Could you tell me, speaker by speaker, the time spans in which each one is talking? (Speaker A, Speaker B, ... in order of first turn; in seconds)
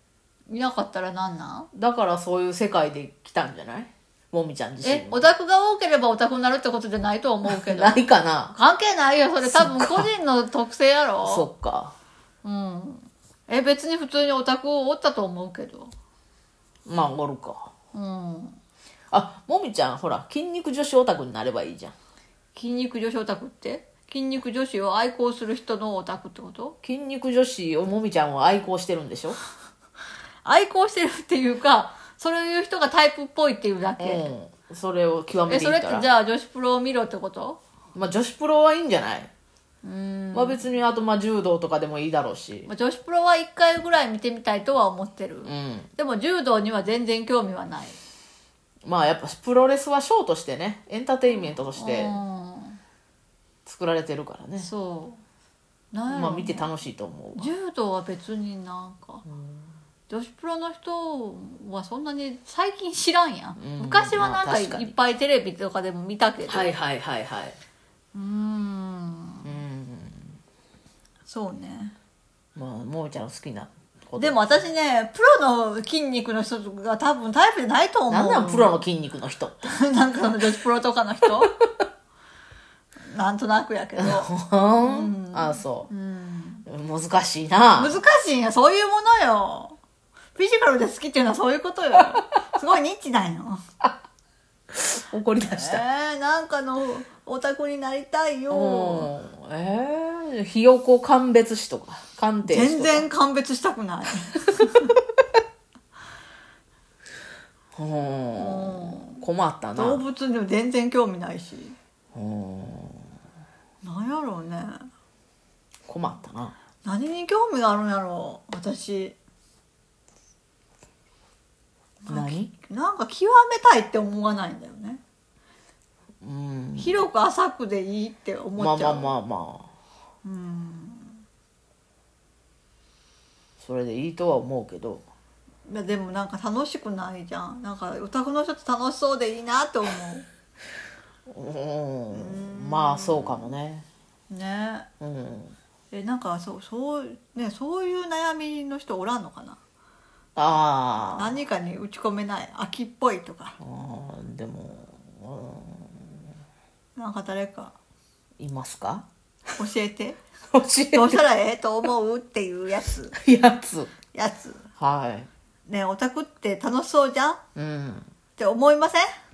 Speaker A: 0.5-1.7, 4.8-8.0, 8.5-11.5, 12.4-15.9, 17.9-18.6, 22.6-26.8, 30.4-34.3, 35.5-37.6, 39.8-40.6, 42.7-48.0, 51.7-52.8, 54.6-55.2, 55.9-56.7, 57.4-59.2, 60.1-66.7, 68.1-69.5, 71.3-72.0, 74.2-78.8, 79.6-81.6, 83.1-86.6, 87.8-89.8, 90.4-93.6, 95.5-99.1, 102.5-104.9, 108.3-109.2, 109.8-111.8, 113.8-114.9, 116.8-119.2, 122.0-125.0, 126.8-129.1, 130.2-131.2, 135.7-140.2, 142.1-143.6, 144.3-144.9, 145.9-149.6, 151.1-153.6, 157.0-157.8, 159.6-160.2, 160.9-163.2, 164.1-164.7, 165.7-167.4, 168.4-169.1
Speaker B: 1.7-5.3, 7.5-8.6, 9.4-10.1, 11.2-11.9, 16.9-17.7, 19.1-21.9, 26.8-29.4, 34.0-36.1, 38.0-39.3, 40.3-42.7, 45.5-45.9, 48.8-52.2, 53.7-54.7, 56.1-57.5, 59.2-59.7, 63.6-64.9, 66.5-67.6, 69.4-70.4, 72.5-74.6, 78.1-79.7, 84.0-85.9, 86.7-88.0, 94.7-95.8, 98.5-103.1, 107.8-110.0, 112.1-113.1, 115.9-116.5, 122.1-122.5, 126.2-127.0, 128.6-129.7, 133.6-135.1, 141.3-143.9, 145.0-145.6, 150.4-151.4, 153.6-156.2, 158.4-159.1, 160.5-161.2, 163.2-163.9, 164.8-165.3, 167.6-168.1